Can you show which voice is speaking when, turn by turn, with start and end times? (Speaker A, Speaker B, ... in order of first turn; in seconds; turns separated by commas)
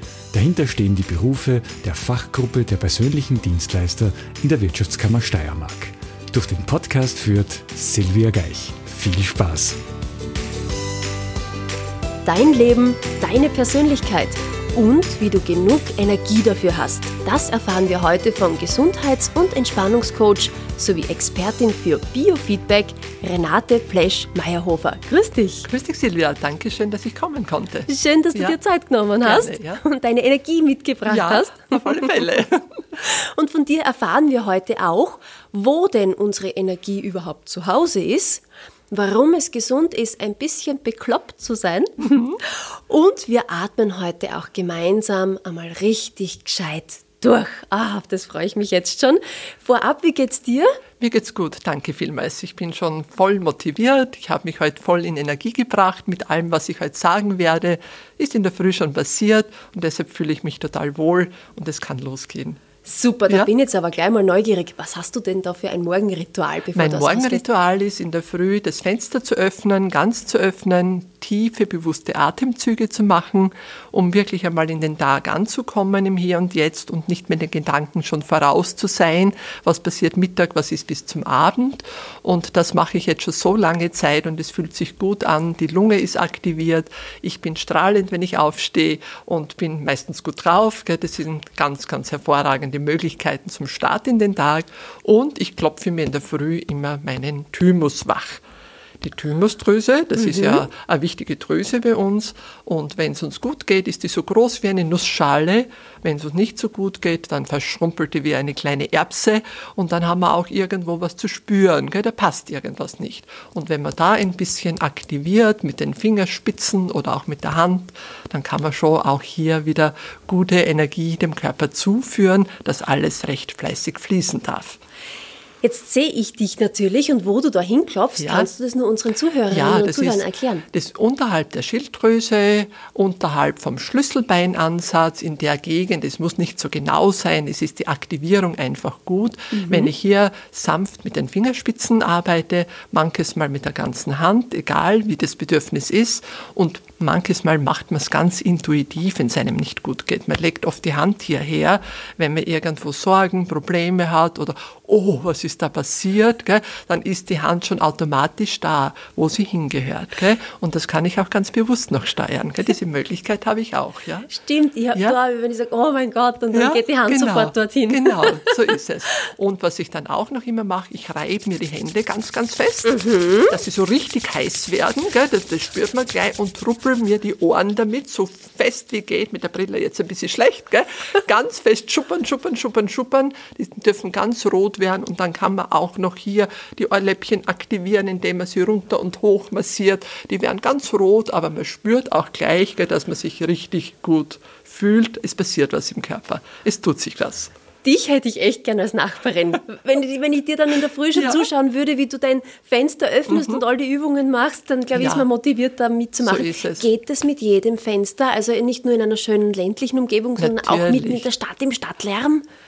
Speaker A: 0.3-9.8, Speaker B: 12.2-25.7, Speaker C: 25.6-28.6, Speaker B: 27.9-32.2, Speaker C: 29.2-29.8, Speaker C: 31.1-32.8, Speaker B: 33.0-50.8, Speaker C: 42.0-42.4, Speaker C: 51.0-62.6, Speaker B: 62.8-67.4, Speaker C: 66.7-98.4, Speaker C: 99.0-124.8, Speaker B: 100.2-100.6, Speaker B: 125.6-130.7, Speaker C: 128.2-128.5, Speaker C: 129.5-164.3, Speaker B: 139.5-139.9, Speaker B: 164.3-168.6, Speaker C: 166.5-197.5, Speaker B: 172.9-173.5, Speaker B: 197.8-212.4, Speaker C: 201.2-201.4, Speaker C: 203.3-203.6, Speaker C: 204.9-205.3, Speaker C: 206.2-206.9, Speaker C: 210.4-211.2